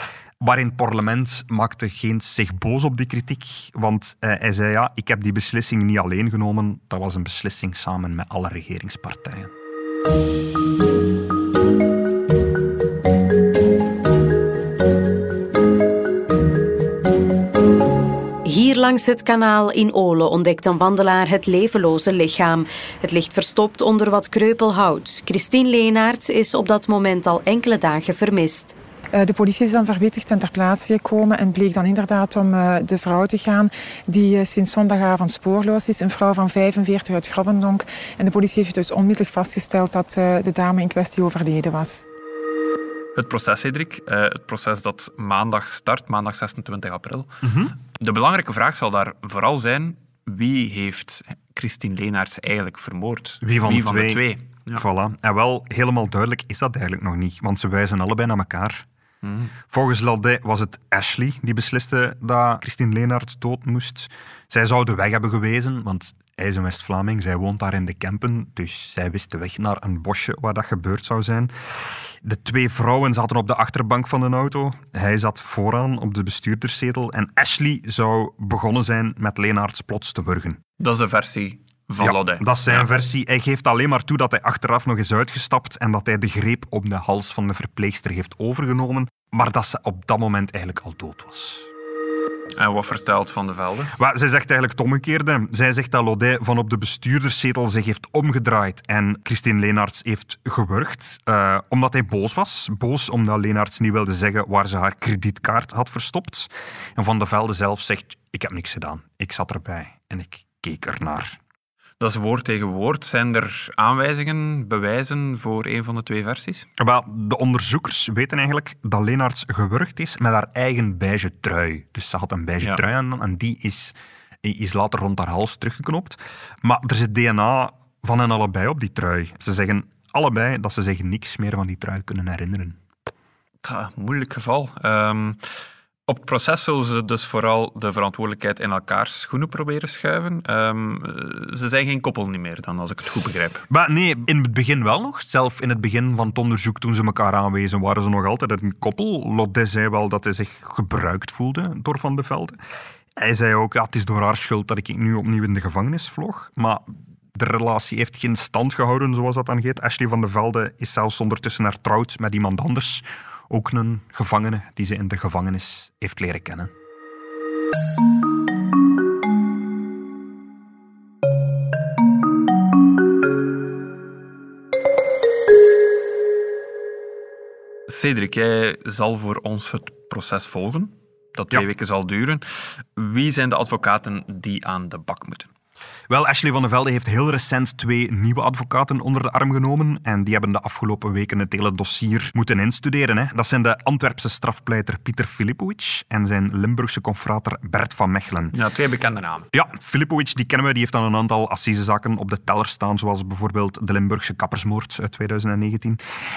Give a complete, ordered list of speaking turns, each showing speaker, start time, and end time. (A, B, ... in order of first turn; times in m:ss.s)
0:00.4-0:09.5 A
0:18.5-0:28.8 B
0:29.2-0:42.1 C
0:43.2-0:47.4 D
0:47.4-0:47.7 A
0:47.9-0:54.8 D
0:53.4-0:58.9 A
0:59.2-0:59.5 D
0:59.7-1:20.6 A
1:20.8-1:22.9 D
1:22.0-1:31.7 A
1:32.6-1:33.9 D
1:33.9-1:51.4 A
1:52.0-1:56.7 D
1:56.8-2:12.8 A
2:13.6-2:15.4 D
2:16.1-2:23.6 D
2:23.7-2:32.6 A
2:33.2-2:46.7 A
2:57.9-3:05.5 D
3:06.1-3:18.6 A
3:18.5-3:19.5 D
3:19.5-3:26.0 A